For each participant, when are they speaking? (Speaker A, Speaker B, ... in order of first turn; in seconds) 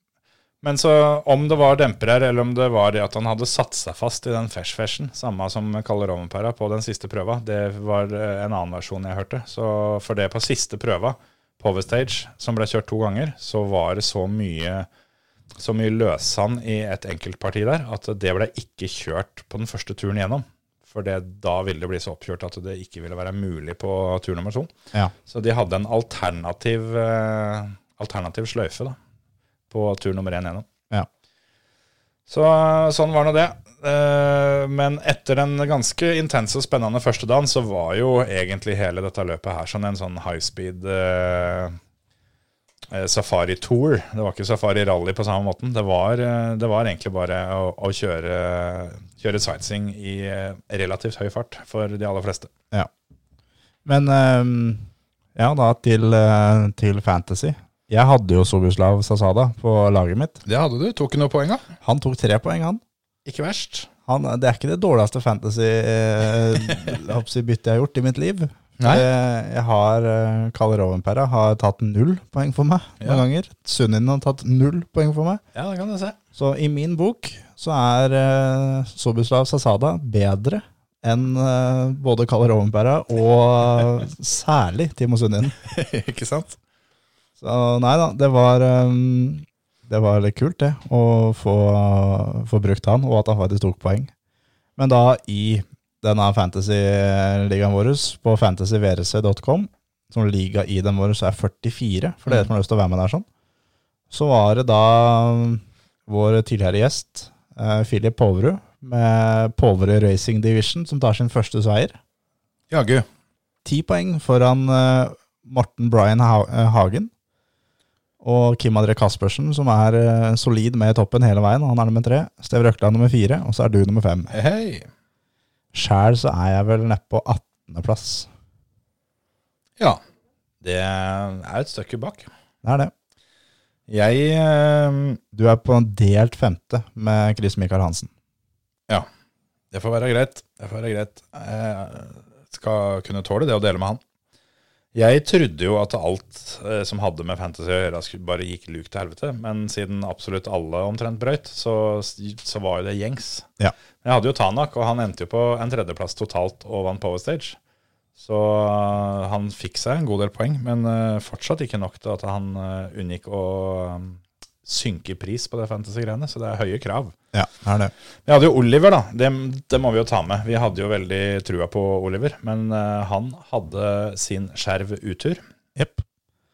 Speaker A: 0.6-14.9, 15.6-24.7, 25.2-29.0, 29.7-30.7, 32.3-41.8, 42.9-52.5, 60.5-61.6, 63.2-63.9, 68.8-69.0, 75.5-76.2, 85.7-86.6, 112.7-113.0, 124.3-124.9, 130.6-132.3, 133.9-135.2, 139.7-144.0, 144.9-153.5, 154.0-157.6, 158.2-167.1, 168.2-175.4
Speaker B: 53.9-60.4, 61.8-62.8, 64.1-75.4, 76.3-85.5, 87.4-94.1, 94.8-103.2, 104.1-112.0, 113.6-117.1, 118.2-124.3, 125.7-128.3, 132.6-132.9, 135.3-138.1, 167.3-167.9, 175.8-176.0